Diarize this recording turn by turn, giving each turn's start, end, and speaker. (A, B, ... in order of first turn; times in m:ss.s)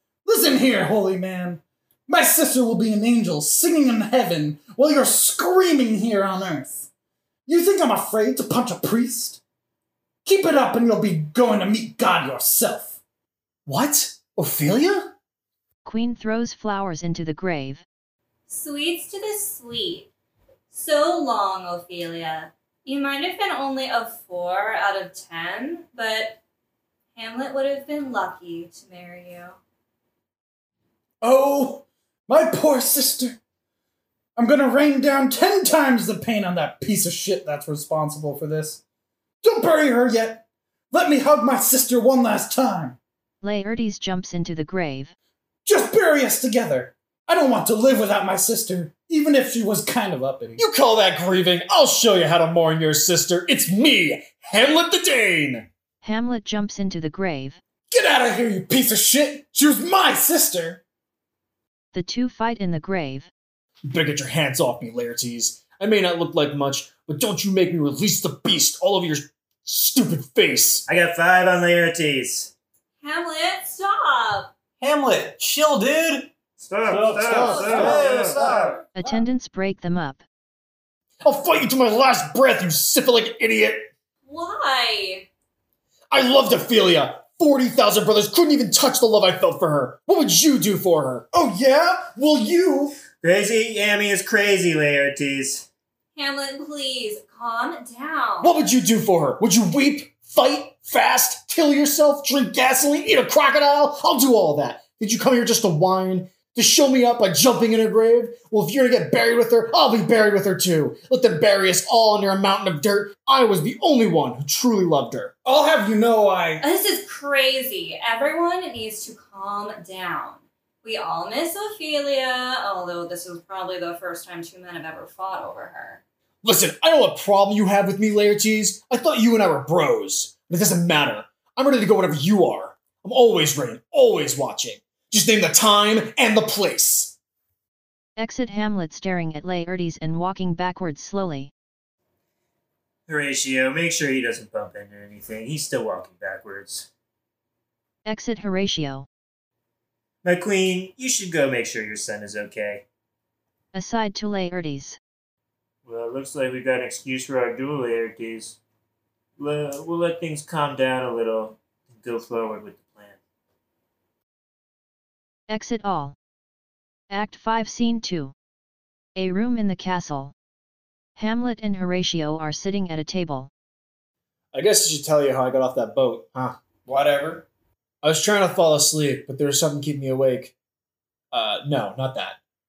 0:00.2-0:06.9 A
0:07.5-0:09.4 A
0:10.2-0:13.0 A
0:13.7-0:15.1 B
0:15.8-0:17.9 C
0:18.5-0:20.1 D
0:20.7-0:26.4 D
0:27.2-0:29.6 D
0:31.2-0:33.4 A
0:34.4-0:38.8 A
0:39.4-0:43.0 A
0:43.4-0:45.2 C
0:45.6-0:50.6 A
0:50.6-0:55.7 B
0:56.0-0:57.6 C
0:57.9-1:00.8 A
1:01.9-1:03.3 C
1:03.9-1:10.9 B
1:10.9-1:12.5 E
1:13.0-1:14.5 D
1:14.8-1:16.3 F
1:16.6-1:18.8 E
1:16.9-1:18.9 F
1:17.2-1:18.1 B
1:19.0-1:20.2 C
1:21.2-1:23.9 B
1:24.3-1:25.3 D
1:26.1-1:31.3 B
1:31.3-1:33.0 A
1:33.2-1:35.7 E
1:36.2-1:38.5 D
1:38.4-1:55.3 B
1:55.4-1:56.6 A
1:56.6-2:06.0 D
2:06.4-2:17.2 B
2:18.2-2:21.5 C
2:23.1-2:26.9 E
2:28.0-2:29.1 C
2:30.2-2:32.8 E
2:33.7-2:35.0 C
2:35.8-2:38.6 E
2:39.4-2:43.2 E
2:45.5-2:46.2 C
2:47.1-2:48.3 C
2:49.2-2:50.3 C
2:51.2-2:53.5 C
2:54.5-2:56.6 B
2:56.8-2:57.5 F
2:58.0-3:00.6 B
3:01.3-3:02.4 B